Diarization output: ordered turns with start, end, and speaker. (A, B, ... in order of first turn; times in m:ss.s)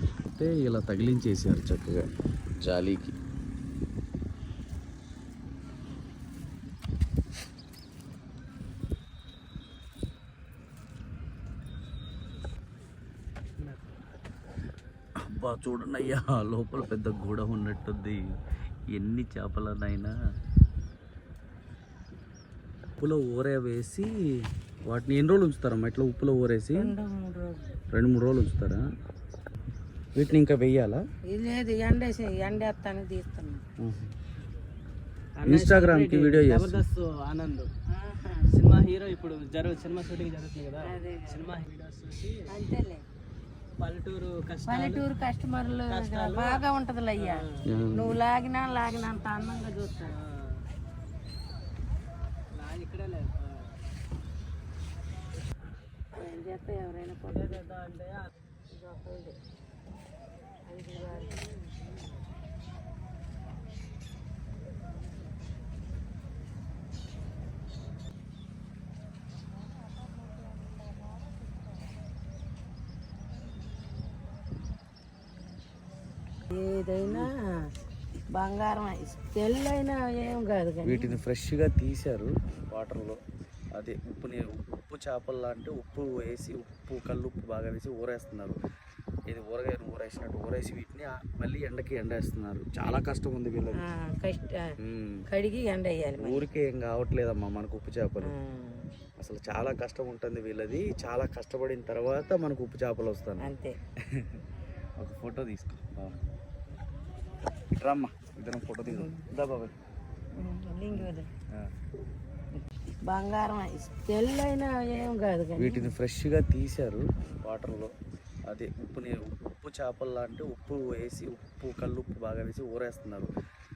0:00.4-0:02.1 A
0:02.6-0:03.1 A
0:13.6-0:13.9 B
0:15.3-0:18.2 A
0:18.9-0:20.1 A
0:23.0-0:24.1 A
0:24.9-0:26.9 A
0:26.7-0:27.7 C
0:27.9-0:28.8 A
0:30.1-0:31.0 A
0:31.3-0:33.6 C
0:33.8-0:34.1 A
0:35.4-0:37.7 B
0:35.4-0:36.7 A
0:37.9-0:38.5 C
0:38.5-0:42.5 B
0:40.8-0:41.5 C
0:42.5-0:43.0 C
0:43.8-0:45.0 B
0:44.7-0:50.1 C
0:45.9-0:47.6 B
0:47.6-0:48.2 A
0:50.1-0:50.6 B
0:52.5-0:53.7 B
0:56.2-0:57.7 C
0:57.3-0:58.3 B
0:58.7-0:59.4 C
1:00.6-1:01.4 C
1:16.5-1:17.3 C
1:18.3-1:21.1 C
1:20.8-1:23.2 A
1:23.8-1:28.6 A
1:29.3-1:33.8 A
1:33.8-1:34.6 C
1:34.8-1:35.2 A
1:35.3-1:36.4 C
1:36.2-1:38.3 A
1:38.2-1:38.9 C
1:39.2-1:43.5 A
1:43.4-1:43.8 C
1:44.1-1:44.4 A
1:45.0-1:46.2 A
1:47.7-1:49.7 A
1:48.9-1:49.2 C
1:50.4-1:51.3 C
1:50.9-1:51.7 A
1:53.0-1:55.9 C
1:55.6-1:57.9 A
1:58.5-2:03.3 A